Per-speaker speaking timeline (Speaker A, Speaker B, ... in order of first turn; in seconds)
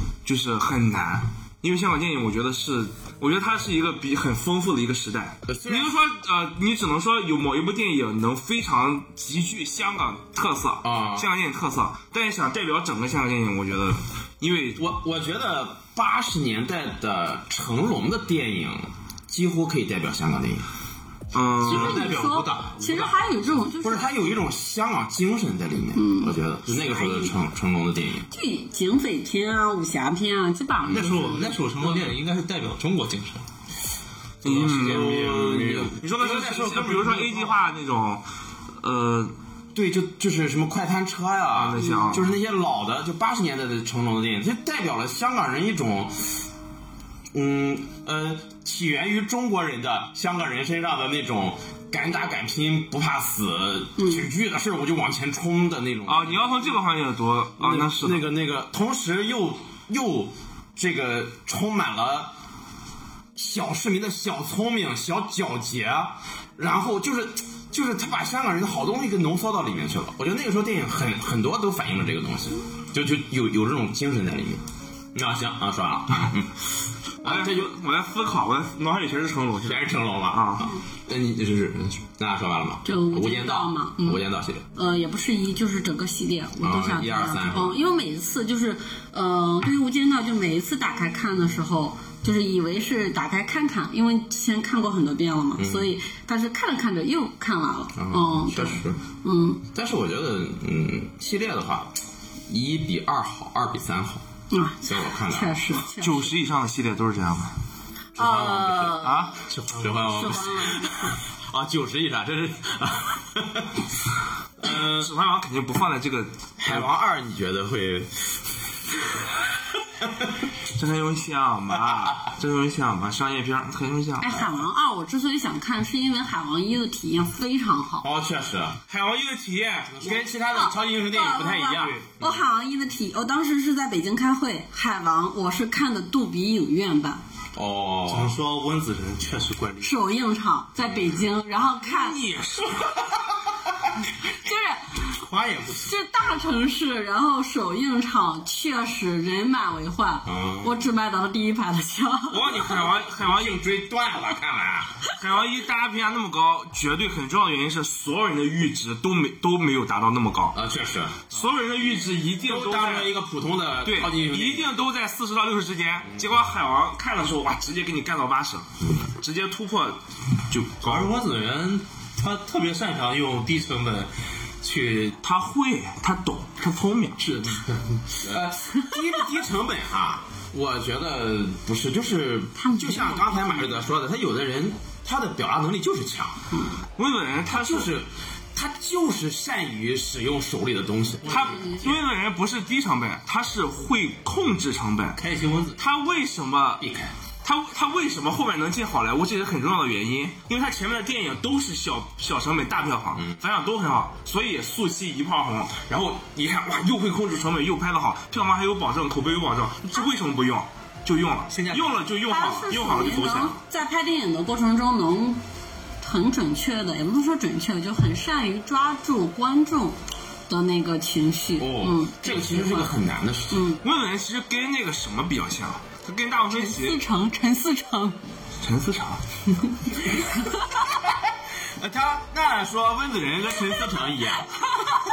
Speaker A: 0.2-14.8, 21.3-22.1, 34.4-38.2, 38.8-39.3, 41.5-42.4, 56.1-58.2, 77.2-80.7, 105.9-107.6, 114.6-116.9, 120.7-124.4, 128.9-130.1, 141.9-142.8, 152.3-153.6, 155.1-160.6, 161.3-163.1, 163.8-170.0, 170.5-171.1, 175.2-177.3, 187.0-187.9, 191.2-195.2, 195.8-196.8, 197.4-213.6, 223.8-227.0, 228.6-229.2
Speaker B: 5.5-5.9, 10.8-11.3, 14.8-20.7, 21.6-23.2, 23.8-28.3, 34.4-37.5, 39.8-46.5, 47.3-56.4, 57.6-62.3, 63.4-76.5, 77.2-77.8, 79.6-84.7, 86.6-87.8, 95.6-95.9, 97.9-99.0, 99.7-104.3, 104.8-105.6, 108.2-109.1, 109.7-113.8, 114.6-115.1, 116.6-118.3, 128.0-128.8, 129.9-132.4, 137.5-138.4, 150.2-150.8, 153.2-155.0, 160.5-161.3, 162.4-164.7, 178.2-186.4, 187.4-191.4, 196.8-197.1, 221.6-223.7, 231.8-234.5
Speaker C: 21.6-24.1, 25.9-27.3, 28.3-31.6, 41.8-42.1, 54.0-54.2, 82.8-99.6, 104.5-106.3, 108.2-109.4, 110.0-111.1, 124.2-128.1, 130.1-137.2, 139.8-142.2, 144.4-145.1, 145.8-152.7, 182.6-183.8, 212.3-215.4, 216.0-220.0, 220.5-222.9, 223.5-223.8, 226.5-228.2, 230.0-230.5
Speaker D: 30.9-33.4, 109.5-109.9, 138.1-139.9, 145.1-145.9, 170.5-175.2, 177.2-178.2, 191.3-192.0, 195.2-195.8, 211.5-212.0